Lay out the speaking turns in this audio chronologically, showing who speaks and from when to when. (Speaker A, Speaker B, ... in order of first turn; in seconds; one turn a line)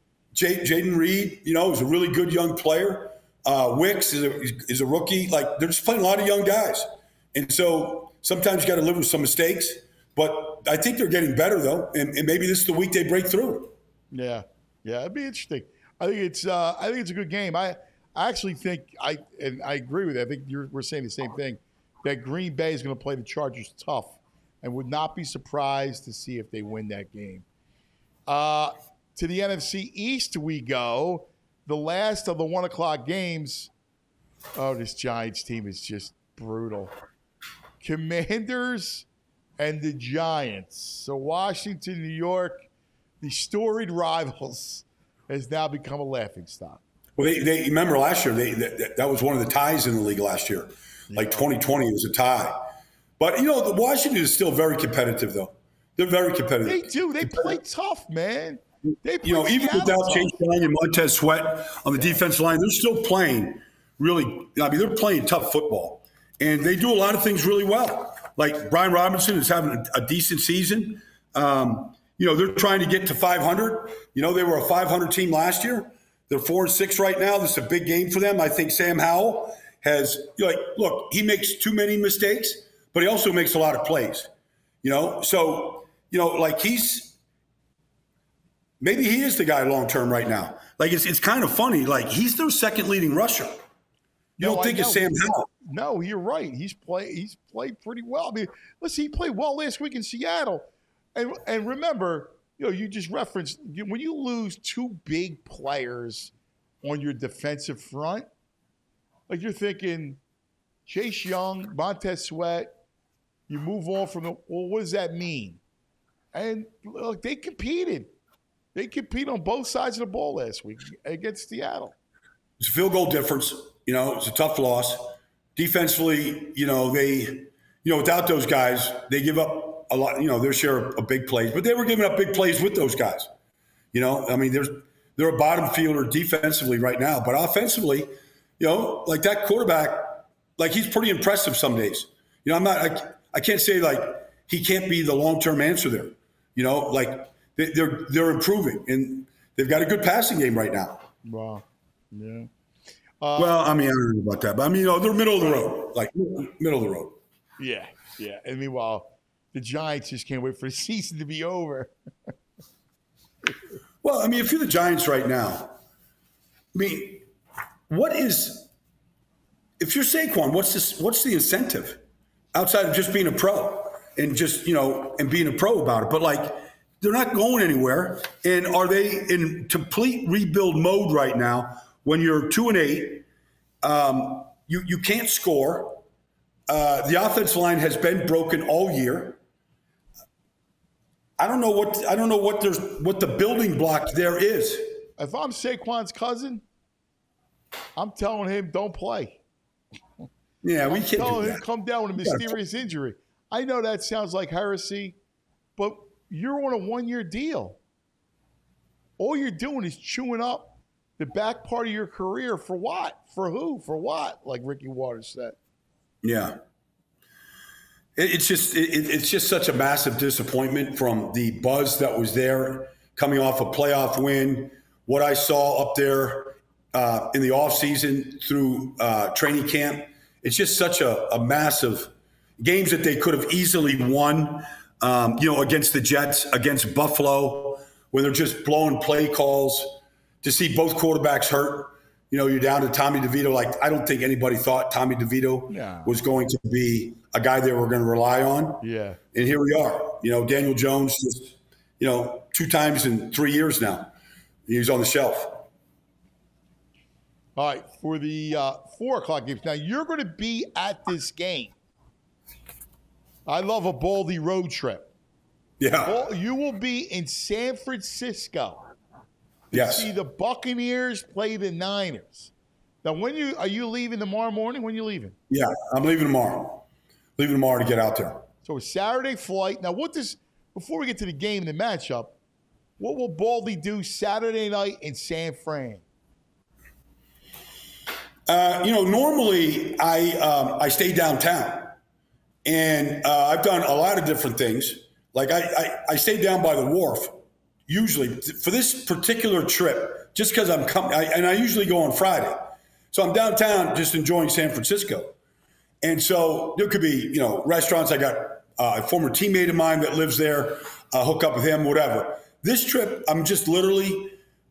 Speaker A: 0.3-13.7
Speaker B: 14.1-27.4
Speaker B: 28.3-33.7
Speaker B: 34.5-36.9
Speaker B: 37.8-39.0
Speaker B: 39.6-42.7
Speaker B: 43.2-46.8
Speaker A: 47.2-57.5
Speaker B: 51.1-51.5
Speaker B: 56.6-60.3
Speaker A: 59.2-84.3
Speaker B: 62.0-62.2
Speaker A: 84.8-87.1
Speaker A: 88.8-93.6
Speaker B: 94.4-108.3
Speaker A: 94.4-95.5
Speaker B: 109.3-110.2
Speaker B: 110.9-112.7
Speaker B: 113.5-115.6
Speaker B: 116.3-118.1
Speaker B: 118.7-121.9
Speaker A: 122.6-133.3
Speaker A: 133.9-151.1
Speaker B: 151.2-152.5
Speaker B: 153.2-153.6
Speaker A: 153.3-157.2
Speaker B: 157.6-161.9
Speaker A: 164.0-165.8
Speaker A: 166.7-167.2
Speaker A: 167.9-168.7
Speaker A: 169.8-172.0
Speaker A: 172.5-183.2
Speaker A: 183.8-186.0
Speaker A: 186.7-189.4
Speaker A: 191.4-195.1
Speaker B: 195.2-196.6
Speaker B: 197.9-199.4
Speaker A: 200.6-201.6
Speaker B: 200.9-205.2
Speaker A: 202.2-202.6
Speaker B: 205.8-207.8
Speaker B: 209.2-215.6
Speaker A: 216.2-216.6
Speaker A: 218.2-248.8
Speaker B: 245.7-246.1
Speaker B: 248.8-249.2
Speaker A: 249.3-254.1
Speaker A: 254.7-255.7
Speaker B: 257.6-261.7
Speaker B: 263.4-265.1
Speaker A: 265.8-266.2
Speaker B: 266.0-268.9
Speaker B: 269.7-272.5
Speaker A: 269.7-270.1
Speaker B: 273.0-275.4
Speaker A: 275.5-276.8
Speaker A: 277.4-278.4
Speaker B: 278.6-282.4
Speaker B: 283.0-286.0
Speaker A: 288.5-291.9
Speaker A: 292.6-297.4
Speaker A: 297.9-305.3
Speaker A: 306.0-314.4